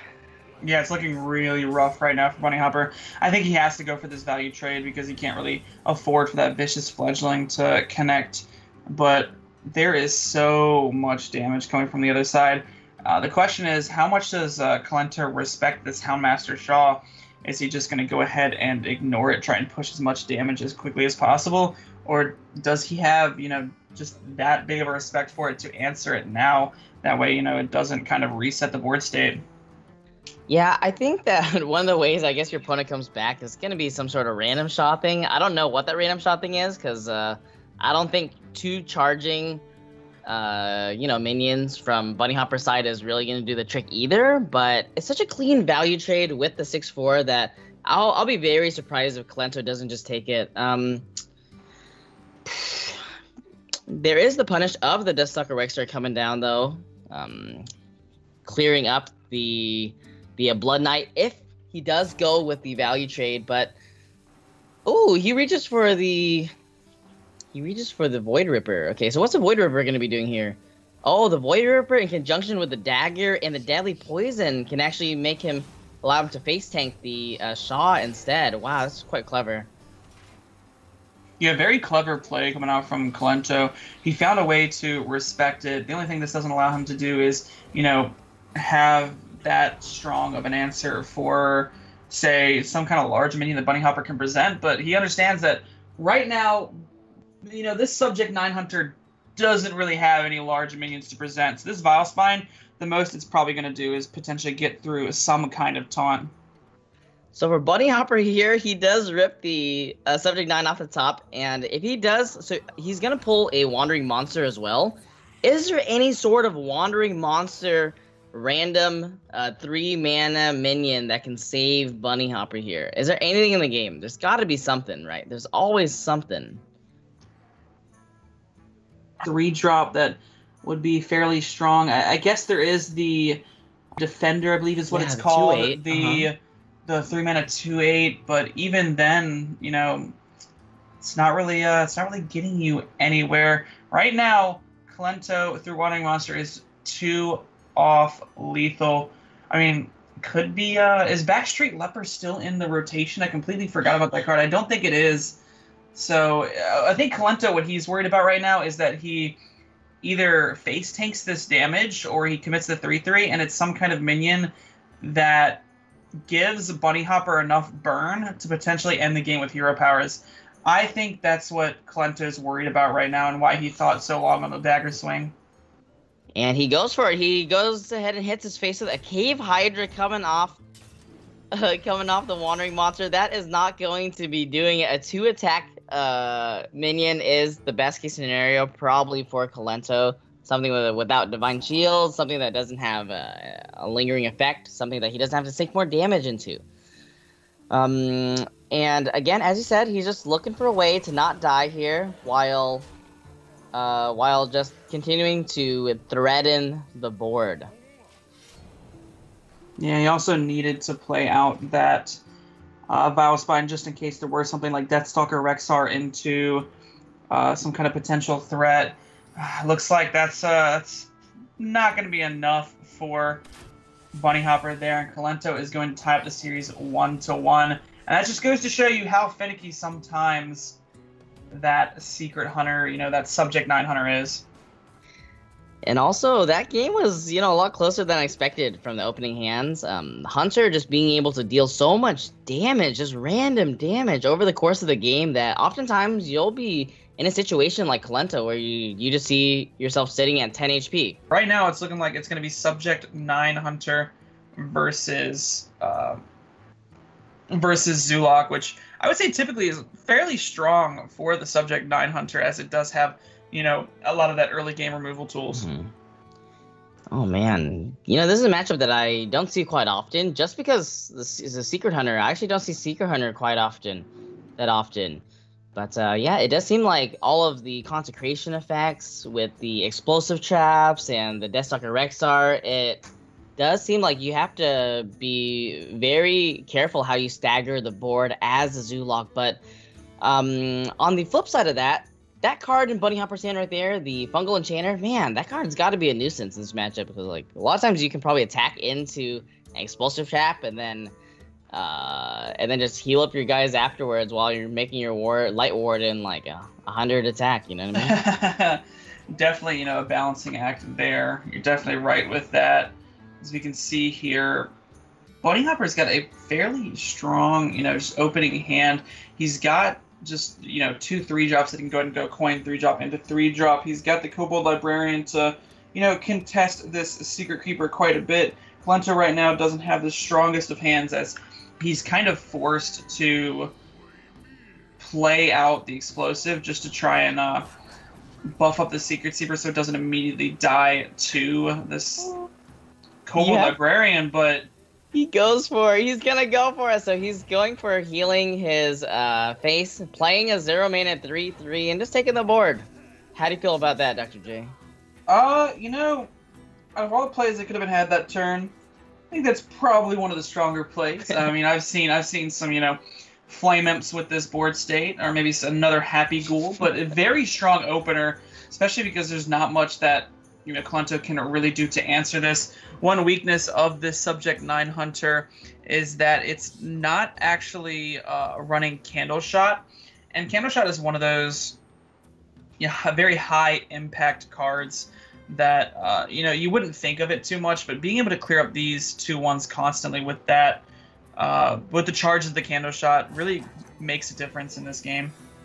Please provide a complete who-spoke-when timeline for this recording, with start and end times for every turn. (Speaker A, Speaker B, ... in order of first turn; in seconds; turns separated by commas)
Speaker A: 0.6-29.4, Speaker B: 30.5-39.6, Speaker B: 40.2-51.1, Speaker B: 52.5-53.0, Speaker B: 53.9-57.7, Speaker B: 58.5-63.8, Speaker B: 64.9-66.5, Speaker B: 67.5-79.7, Speaker A: 81.4-96.7, Speaker A: 97.4-106.3, Speaker B: 107.3-126.6, Speaker A: 129.2-133.4, Speaker A: 134.0-140.2, Speaker B: 134.9-136.3, Speaker A: 141.0-155.4, Speaker A: 155.9-159.4, Speaker A: 160.0-165.7, Speaker A: 166.3-175.3, Speaker B: 176.3-180.6, Speaker B: 181.5-196.6, Speaker B: 197.7-202.9, Speaker B: 203.7-207.7, Speaker A: 209.8-212.2, Speaker A: 212.9-216.7, Speaker A: 217.3-223.4, Speaker A: 224.1-230.8, Speaker A: 231.5-234.4, Speaker B: 235.9-251.2, Speaker A: 251.3-256.2, Speaker A: 257.5-265.7, Speaker B: 265.5-265.9, Speaker B: 267.1-275.2, Speaker B: 275.8-289.6, Speaker B: 290.2-301.1, Speaker B: 301.7-308.2, Speaker A: 307.9-314.7, Speaker A: 315.4-333.7, Speaker A: 335.0-337.7, Speaker A: 338.6-342.3, Speaker B: 342.2-342.5, Speaker A: 343.2-344.7, Speaker B: 343.4-343.8, Speaker B: 345.1-354.7, Speaker A: 355.3-356.3, Speaker A: 356.9-358.7, Speaker A: 359.3-381.8, Speaker A: 382.8-390.9, Speaker A: 391.4-395.3